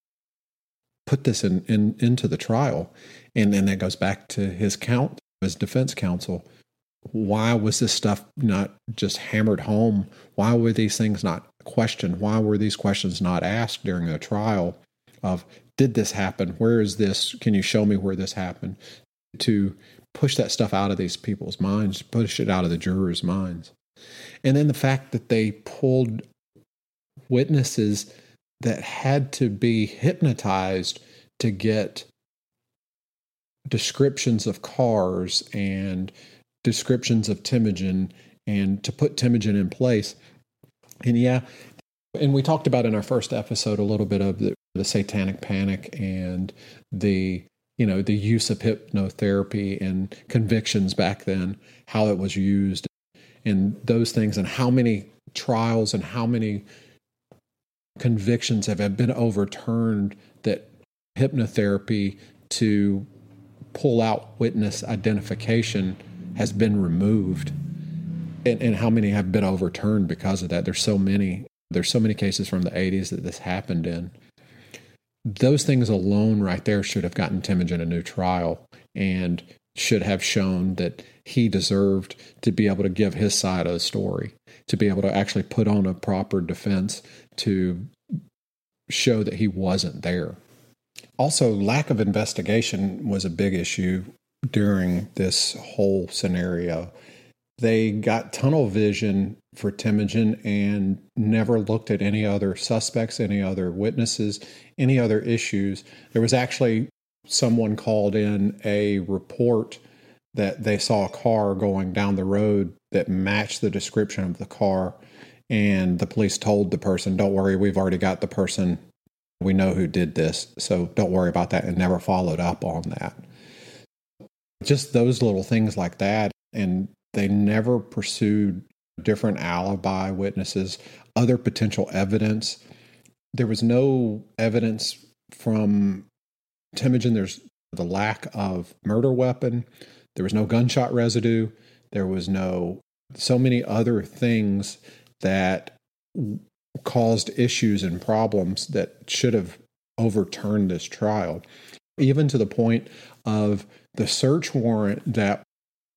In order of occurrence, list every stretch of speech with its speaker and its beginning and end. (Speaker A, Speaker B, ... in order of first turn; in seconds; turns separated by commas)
Speaker A: 1.1-6.5, Speaker A: 7.1-18.8, Speaker A: 19.3-23.7, Speaker A: 24.4-26.2, Speaker A: 27.3-32.1, Speaker A: 33.7-40.2, Speaker A: 41.0-41.4, Speaker A: 42.1-52.9, Speaker A: 53.4-56.6, Speaker A: 58.0-63.1, Speaker A: 63.7-67.5, Speaker A: 68.4-74.1, Speaker A: 75.2-87.9, Speaker A: 88.9-90.4, Speaker A: 91.2-96.9, Speaker A: 97.6-109.8, Speaker A: 110.3-118.8, Speaker A: 119.4-123.2, Speaker A: 124.6-132.6, Speaker A: 133.3-136.1, Speaker A: 136.7-151.4, Speaker A: 152.0-155.4